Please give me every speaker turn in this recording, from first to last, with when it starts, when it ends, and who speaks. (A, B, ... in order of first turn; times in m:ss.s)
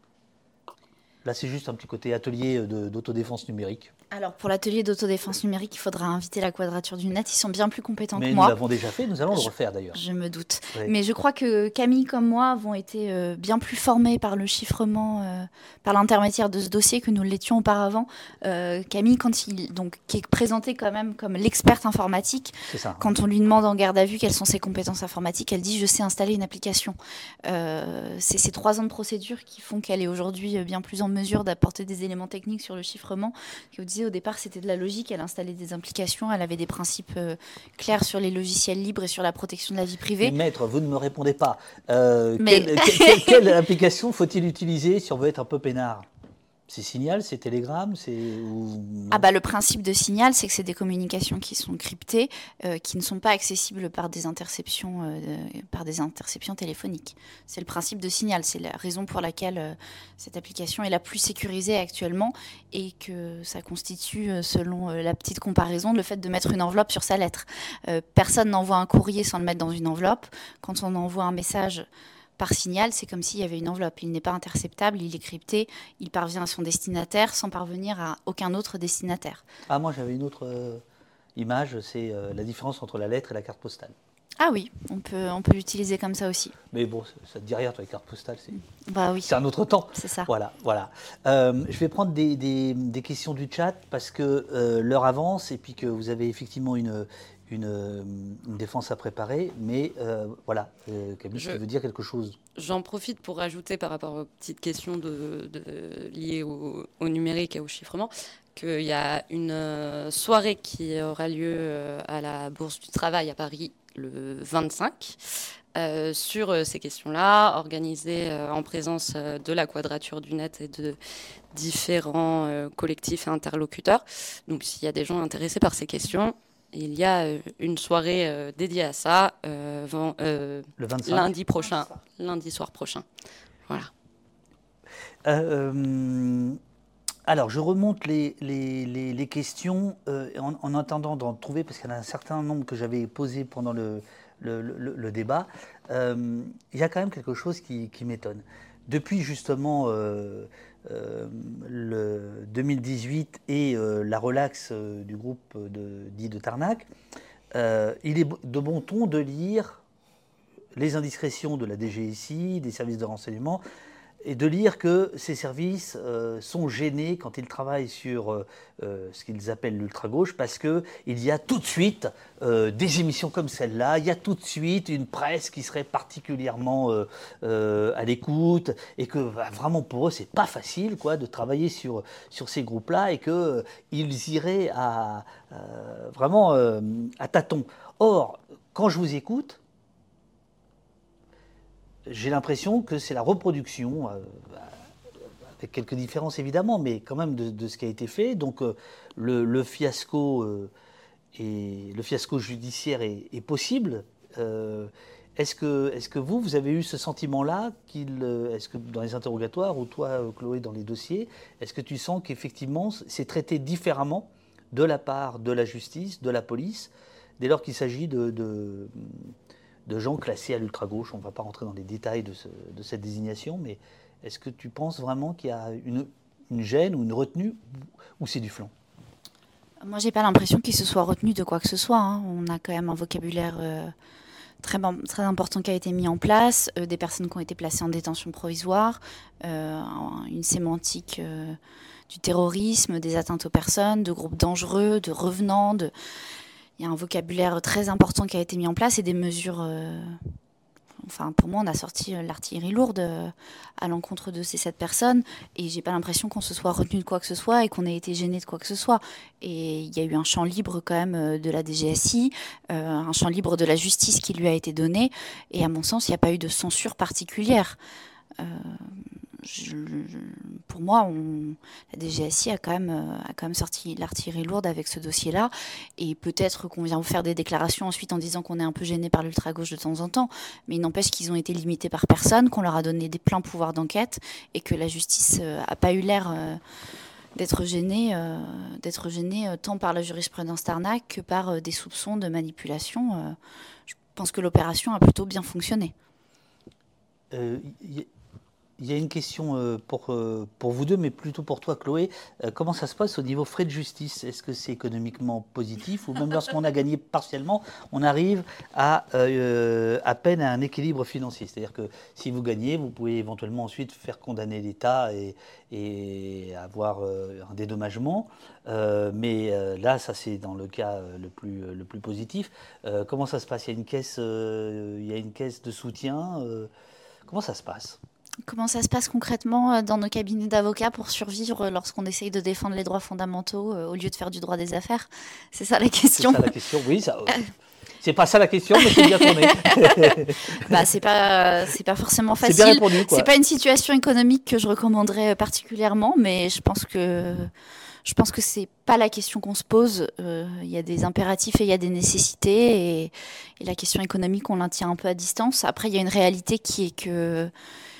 0:01.2-0:03.9 A
0:04.1-0:08.6 B
0:08.1-0:10.0 A
0:09.3-0:40.3 B
0:22.7-0:23.1 A
0:40.2-0:46.1 A
0:42.4-0:43.4 B
0:46.7-0:49.2 A
0:49.1-1:11.9 B
1:12.4-1:19.4 B
1:19.7-1:20.8 A
1:21.4-1:23.9 A
1:24.4-1:26.5 B
1:26.7-1:28.6 A
1:28.9-1:29.3 B
1:29.2-1:42.4 A
1:29.9-1:30.3 B
1:41.3-1:41.6 C
1:42.6-1:55.2 C
1:55.7-2:01.0 C
2:01.5-2:13.0 C
2:10.8-2:11.3 A
2:15.2-2:16.6 A
2:17.3-2:36.9 A
2:37.5-2:39.8 A
2:40.7-2:43.6 A
2:44.2-3:09.6 A
3:12.1-3:14.8 A
3:15.6-3:20.7 A
3:21.3-3:39.3 A
3:39.8-3:47.6 A
3:48.2-3:48.7 A
3:49.8-3:53.9 B
3:54.6-4:01.6 B
4:02.1-4:05.9 B
4:06.8-4:10.3 B
4:11.0-4:27.8 B
4:28.4-4:46.6 B
4:47.3-4:53.4 B
4:53.9-4:55.9 B
4:57.3-4:58.1 A
4:58.8-5:26.7 A
5:27.3-5:28.0 A
5:28.4-5:36.5 B
5:36.1-5:37.4 A
5:38.0-5:40.8 A
5:38.8-5:47.5 B
5:42.4-5:43.3 A
5:48.0-5:57.5 B